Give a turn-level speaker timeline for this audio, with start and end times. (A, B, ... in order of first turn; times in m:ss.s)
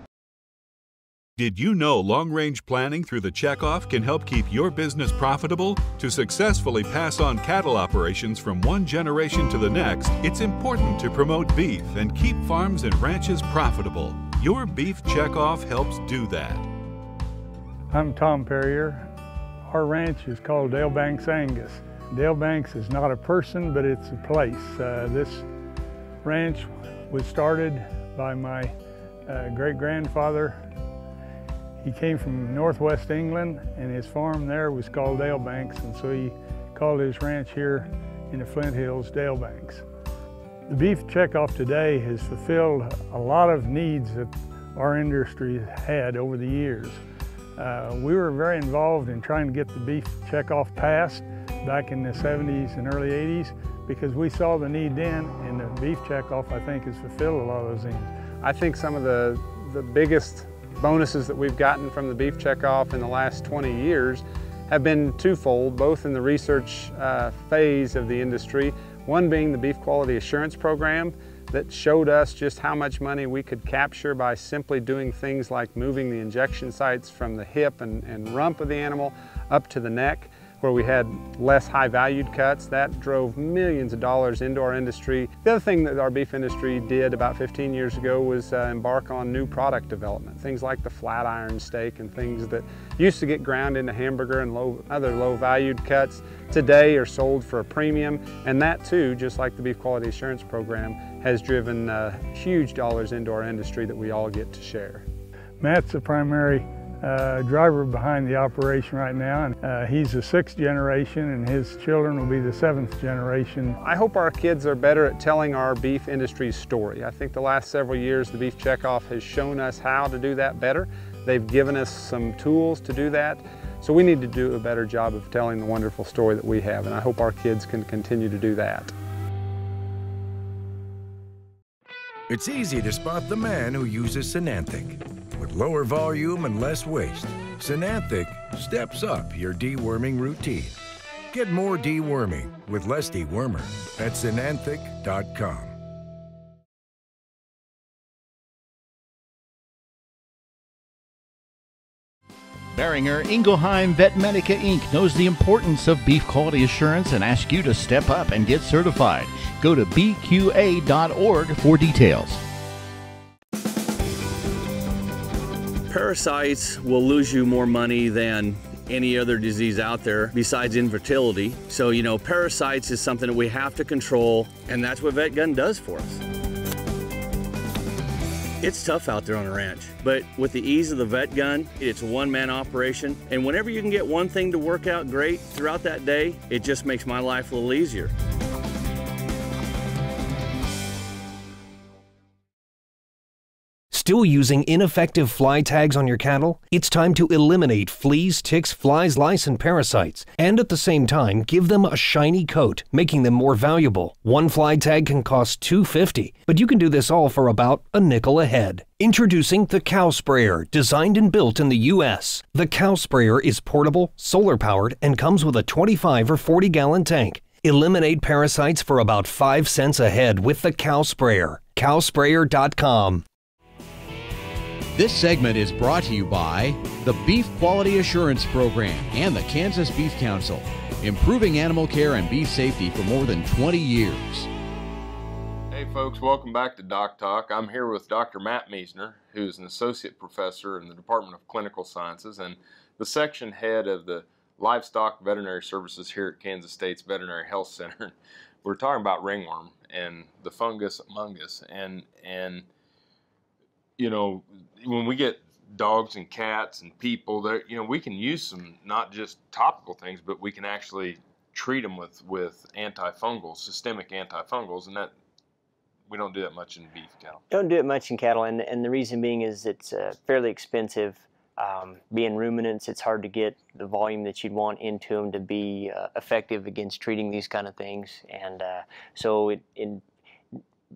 0:01.4-0:16.7 A
0:17.9-0:19.1 B
0:19.7-0:25.4 B
0:26.2-0:28.7 B
0:29.2-0:30.7 B
0:31.8-0:39.8 B
0:40.7-0:47.0 B
0:47.6-0:58.1 B
0:58.4-1:45.0 C
1:45.6-1:53.8 B
1:53.8-2:08.9 C
2:12.3-2:20.8 D
2:21.3-2:25.8 D
2:32.7-2:42.4 E
2:45.9-2:56.2 F
2:58.6-3:08.1 F
3:13.9-3:43.2 G
3:44.9-3:54.5 H
3:55.7-4:12.7 I
4:14.0-4:25.1 I
4:26.1-4:27.4 I
4:27.5-4:40.0 J